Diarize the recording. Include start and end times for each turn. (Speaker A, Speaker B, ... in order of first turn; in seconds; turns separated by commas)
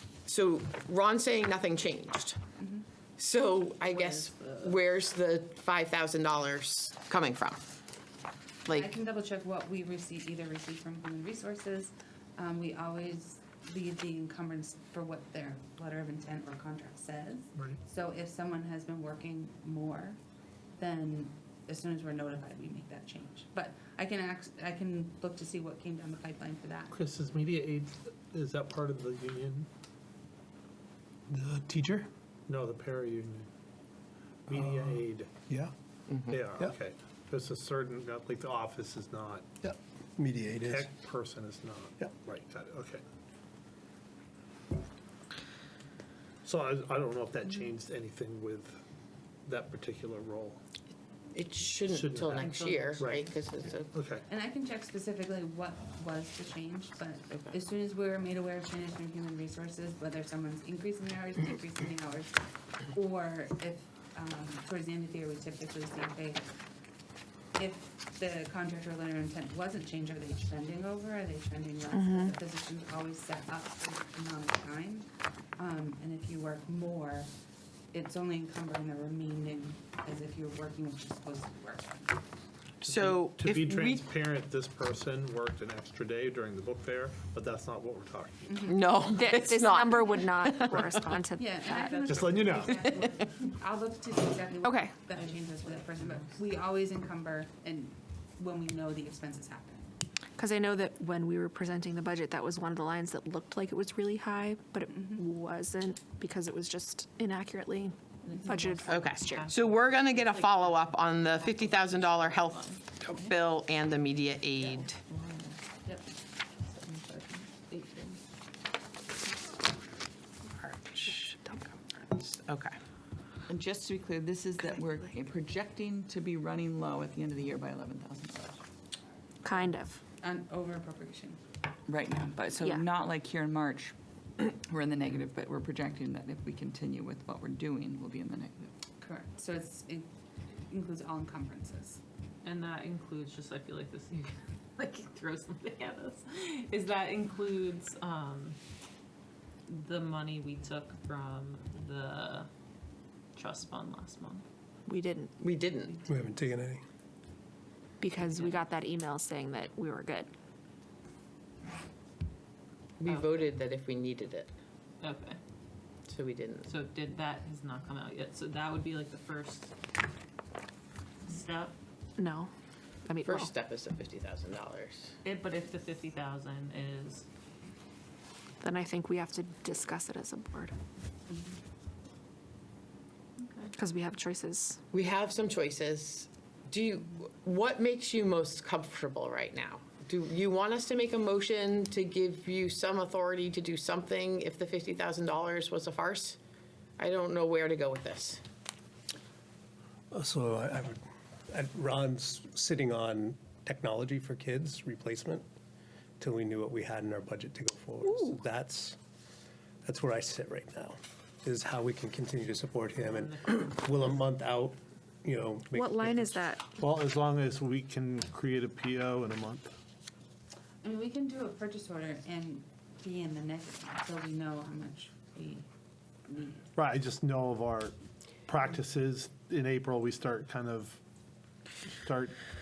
Speaker A: 0.3-2.4, Speaker B: 2.6-2.9, Speaker A: 3.2-7.6, Speaker C: 3.8-4.8, Speaker B: 8.7-20.2, Speaker B: 20.8-27.0, Speaker D: 26.9-29.7, Speaker E: 31.3-32.1, Speaker D: 32.5-33.5, Speaker D: 34.5-35.3, Speaker E: 34.5-35.7, Speaker D: 36.3-39.5, Speaker E: 39.6-40.9, Speaker D: 40.7-43.0, Speaker D: 46.5-48.8, Speaker D: 49.5-50.6, Speaker A: 51.3-53.9, Speaker D: 51.9-53.3, Speaker C: 52.3-53.0, Speaker B: 53.4-66.5, Speaker D: 53.9-54.3, Speaker B: 67.5-77.3, Speaker F: 72.0-72.3, Speaker B: 77.9-82.2, Speaker D: 82.8-88.4, Speaker A: 82.8-84.1, Speaker B: 88.5-88.8, Speaker A: 88.7-91.0, Speaker F: 89.0-92.0, Speaker B: 91.3-100.0, Speaker D: 92.0-92.8, Speaker F: 94.6-94.9, Speaker C: 95.4-96.2, Speaker F: 100.4-109.5, Speaker B: 104.9-105.2, Speaker B: 108.3-108.8, Speaker A: 108.9-115.0, Speaker C: 109.1-112.8, Speaker G: 115.1-115.5, Speaker B: 115.8-116.1, Speaker B: 116.8-118.2, Speaker A: 120.6-121.4, Speaker A: 122.0-122.8, Speaker G: 123.5-128.6, Speaker F: 129.4-130.0, Speaker B: 130.2-131.4, Speaker G: 131.9-138.7, Speaker F: 132.6-132.9, Speaker B: 139.0-140.1, Speaker B: 140.7-142.0, Speaker C: 142.4-148.6, Speaker C: 149.7-152.5, Speaker C: 153.3-154.4, Speaker F: 154.9-155.3, Speaker A: 155.4-156.0, Speaker E: 156.1-156.8, Speaker F: 158.0-160.3, Speaker C: 158.2-158.7, Speaker A: 163.0-164.5, Speaker C: 163.1-163.5, Speaker C: 165.0-165.4, Speaker A: 166.1-166.7, Speaker C: 166.7-169.7, Speaker C: 171.3-171.7, Speaker F: 172.2-172.5, Speaker F: 173.1-173.5, Speaker A: 173.2-175.2, Speaker C: 175.2-177.2, Speaker F: 178.6-180.7, Speaker C: 183.4-183.7, Speaker F: 183.8-184.8, Speaker A: 184.9-196.4, Speaker A: 197.0-198.4, Speaker E: 200.1-205.4, Speaker E: 206.2-209.0, Speaker F: 208.1-208.3, Speaker E: 209.8-216.5, Speaker C: 212.9-214.2, Speaker F: 215.7-216.7, Speaker D: 216.8-219.7, Speaker B: 220.8-225.7, Speaker B: 226.3-226.6, Speaker D: 226.8-227.9, Speaker D: 228.5-231.0, Speaker D: 232.0-232.3